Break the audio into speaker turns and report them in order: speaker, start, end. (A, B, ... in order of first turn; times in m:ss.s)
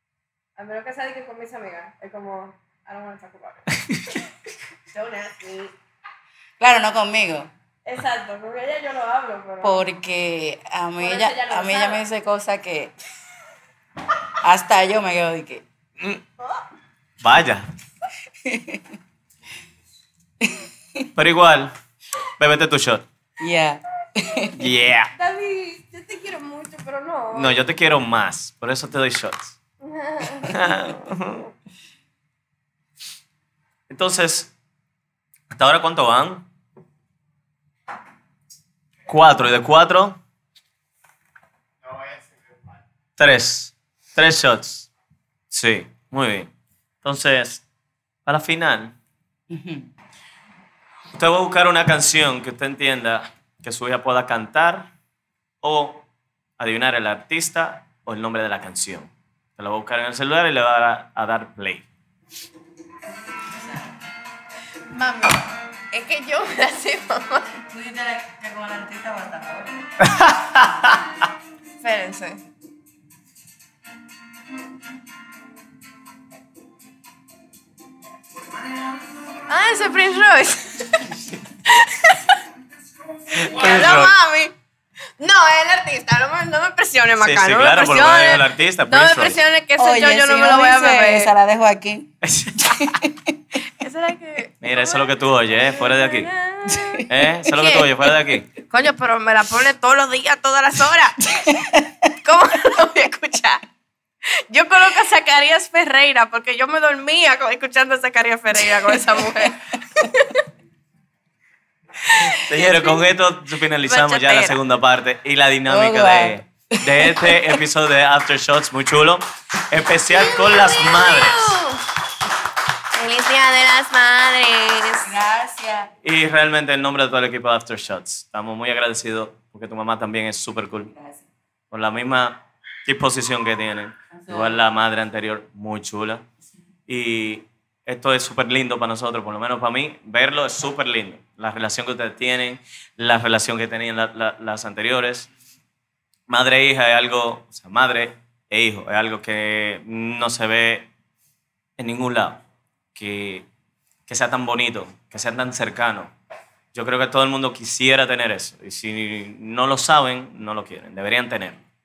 0:00.6-0:03.6 A
0:04.9-0:05.7 A
0:06.6-0:07.5 B
0:07.8-0:09.8 A
0:09.6-0:12.9 B
0:11.0-0:12.0 A
0:14.4-0:15.6 B
0:16.4-0:16.6 A
0:17.2-0:17.6 C
0:18.4-0:18.8 B
0:20.4-0:21.1 B
0:21.1-0:21.7 C
0:22.4-0:23.0 C
0:23.4-0:24.7 B
0:24.6-0:25.1 C
0:25.1-0:27.6 A
0:27.3-0:29.6 C
0:29.8-0:30.6 A
0:30.4-0:31.5 C
0:33.9-0:34.5 C
0:35.5-0:36.4 C
0:39.1-0:40.2 C
0:43.2-0:44.9 C
0:45.5-0:46.5 C
0:47.0-0:47.6 C
0:48.2-0:48.9 C
0:49.5-0:49.9 B
0:51.2-0:54.9 C
0:55.6-0:56.0 C
0:56.6-1:01.8 C
1:03.5-1:03.9 B
1:04.9-1:07.5 A
1:07.6-1:09.8 B
1:10.0-1:11.0 C
1:11.8-1:12.4 A
1:19.5-1:21.1 A
1:21.6-1:22.4 A
1:23.3-1:24.1 C
1:23.4-1:24.5 A
1:25.2-1:31.3 A
1:27.2-1:29.4 C
1:29.8-1:32.1 B
1:32.2-1:32.9 C
1:32.6-1:33.4 B
1:33.8-1:35.1 A
1:34.6-1:36.3 C
1:35.6-1:38.0 A
1:36.7-1:37.0 B
1:37.1-1:38.5 C
1:38.5-1:41.2 A
1:41.4-1:42.0 B
1:42.2-1:43.6 A
1:44.2-1:50.3 A
1:52.1-1:53.0 A
1:52.4-2:01.6 C
1:53.9-1:54.6 A
1:55.7-1:57.6 B
2:00.1-2:01.8 A
2:02.9-2:05.1 A
2:05.0-2:05.9 B
2:06.0-2:10.9 C
2:10.8-2:11.3 B
2:11.7-2:16.2 C
2:14.1-2:14.6 B
2:16.9-2:25.3 C
2:26.3-2:30.9 C
2:31.8-2:32.4 C
2:32.9-2:33.4 C
2:34.1-2:36.1 C
2:36.7-2:41.6 C